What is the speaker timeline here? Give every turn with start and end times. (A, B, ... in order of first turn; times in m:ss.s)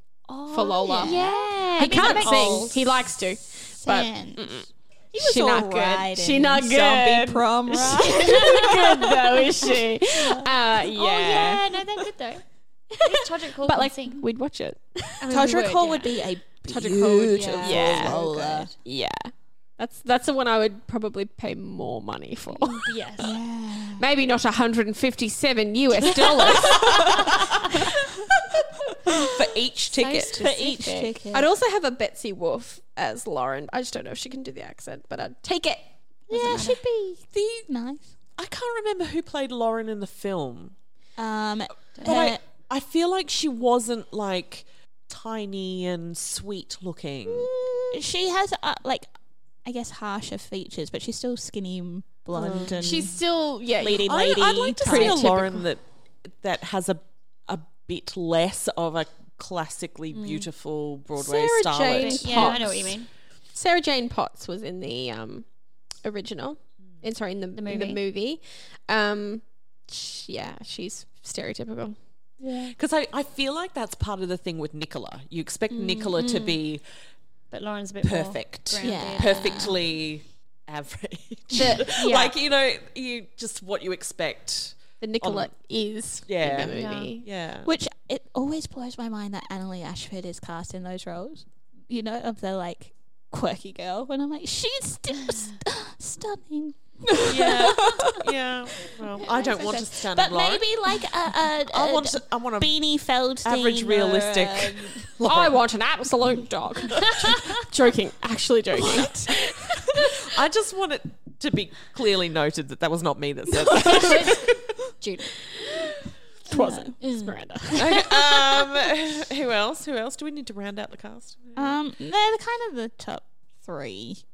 0:00.3-0:02.4 A
0:00.5-0:01.2 B
0:00.5-0:02.8 C
0:01.8-0:11.8 B
0:02.1-0:02.8 D
0:03.7-0:04.5 C
0:05.1-0:09.0 C
0:08.2-0:08.6 A
0:09.6-0:10.5 C
0:10.9-0:12.4 A
0:12.9-0:15.3 B
0:13.0-0:14.2 A
0:15.2-0:16.2 A
0:15.3-0:18.7 C
0:16.7-0:18.2 B
0:17.3-0:18.7 A
0:18.8-0:23.2 B
0:22.5-0:23.3 A
0:23.2-0:24.0 C
0:24.0-0:27.8 B
0:27.3-0:27.6 A
0:29.3-0:30.4 D
0:29.9-0:30.8 A
0:30.4-0:31.5 C
0:30.4-0:35.9 B
0:36.3-0:38.1 C
0:36.3-0:36.8 A
0:38.4-0:40.7 D
0:41.2-0:42.4 C
0:42.0-0:42.3 A
0:42.0-0:47.5 D
0:47.9-0:49.1 C
0:49.6-0:55.4 C
0:52.6-0:55.6 B
0:54.0-1:02.6 D
1:00.1-1:00.5 A
1:01.2-1:05.5 B
1:01.9-1:03.1 A
1:06.0-1:12.0 B
1:07.6-1:08.0 A
1:12.6-1:16.8 D
1:15.7-1:16.1 A
1:17.5-1:19.6 A
1:18.0-1:25.5 D
1:18.8-1:19.8 C
1:21.6-1:21.9 B
1:21.9-1:22.3 A
1:25.0-1:27.2 B
1:26.2-1:27.7 D
1:26.7-1:27.1 A
1:27.6-1:38.3 C
1:37.2-1:40.7 D
1:38.8-1:45.1 C
1:39.4-1:39.8 A
1:41.7-1:42.8 D
1:43.4-1:45.6 D
1:45.2-1:49.6 B
1:50.2-1:54.6 D
1:53.8-1:54.3 B
1:55.0-1:55.3 A
1:56.5-1:57.0 C
1:56.5-1:58.1 B
1:57.7-2:01.8 D
2:01.6-2:04.2 C